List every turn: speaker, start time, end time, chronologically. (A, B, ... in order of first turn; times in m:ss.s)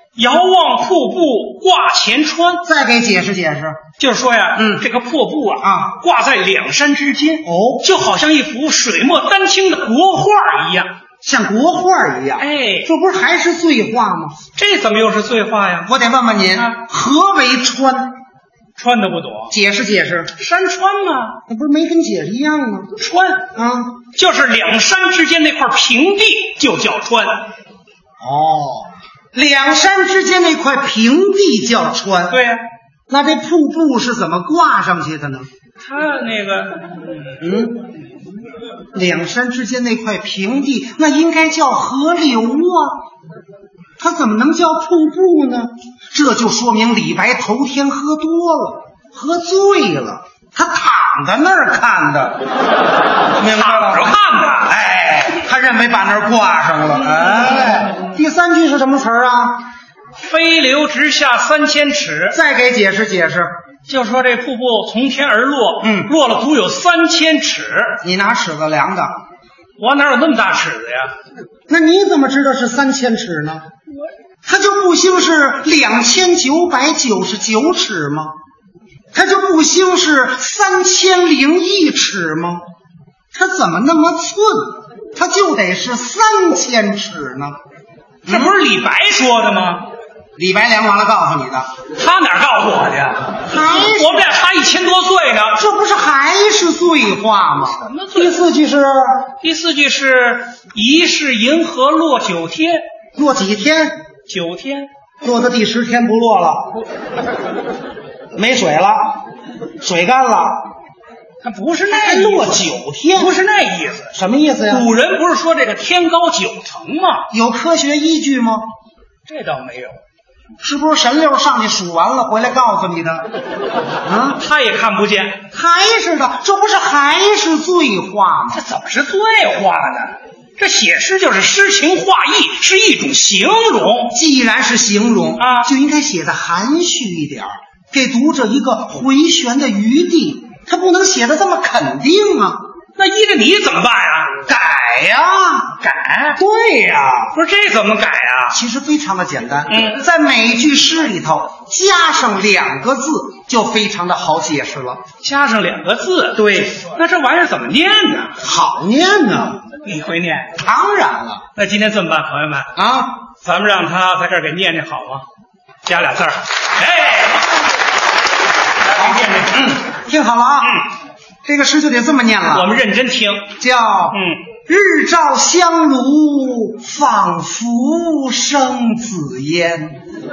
0:00.2-0:02.6 A
0:02.6-0:03.8 B
0:04.0-0:10.9 A
0:04.6-0:04.8 B
0:05.6-0:05.9 B
0:07.4-0:07.8 B
0:11.2-0:14.4 B
0:12.4-0:12.9 A
0:14.6-0:15.9 A
0:15.9-0:18.2 B
0:18.8-0:19.5 A
0:19.5-0:20.3 B
0:20.4-0:21.4 A
0:21.5-0:22.9 B
0:23.0-0:23.4 A
0:23.6-0:24.0 B
0:24.1-0:27.5 A
0:28.2-0:32.4 B
0:32.3-0:32.6 A
0:33.1-0:35.5 B
0:35.8-0:37.4 A
0:37.4-0:37.9 B
0:38.9-0:43.0 B
0:44.0-0:52.4 B
0:53.4-0:59.7 B
0:53.4-0:54.7 A
1:00.2-1:02.4 A
1:02.3-1:03.5 B
1:03.9-1:08.0 A
1:05.8-1:06.1 B
1:08.0-1:09.2 B
1:09.8-1:11.2 A
1:11.7-1:13.7 B
1:14.4-1:18.4 B
1:19.1-1:22.6 B
1:23.3-1:27.6 B
1:28.3-1:28.6 B
1:28.3-1:29.9 A
1:30.4-1:31.7 B
1:31.9-1:35.6 A
1:33.5-1:34.3 B
1:35.6-1:39.3 B
1:37.8-1:38.4 A
1:39.4-1:42.8 A
1:43.2-1:44.0 B
1:44.3-1:44.9 A
1:45.2-1:46.8 B
1:48.3-1:49.2 B
1:49.8-1:50.7 B
1:51.4-1:52.6 A
1:51.9-1:53.4 B
1:53.1-1:54.1 A
1:54.1-1:54.9 B
1:54.7-1:57.2 A
1:57.3-1:58.7 B
1:59.3-2:00.0 A
2:00.6-2:03.3 B
2:04.0-2:04.4 B
2:04.4-2:05.4 A
2:05.5-2:08.6 B
2:08.5-2:14.1 A
2:14.1-2:22.6 B
2:15.4-2:15.7 A
2:23.0-2:24.4 A
2:24.4-2:25.8 B
2:25.8-2:26.4 A
2:26.4-2:27.4 B
2:27.3-2:28.6 A
2:28.5-2:35.0 B
2:29.7-2:30.0 A
2:35.2-2:38.4 A
2:36.4-2:36.8 B
2:38.4-2:39.6 B
2:39.8-2:40.6 A
2:40.6-2:41.4 B
2:41.6-2:42.7 A
2:42.8-2:43.2 B
2:43.4-2:45.3 A
2:45.8-2:47.6 A
2:48.8-2:49.6 A
2:49.0-2:50.8 B
2:50.6-2:50.9 A
2:51.4-2:52.7 B
2:52.5-2:53.5 A
2:53.6-3:00.0 B
2:54.1-2:54.4 A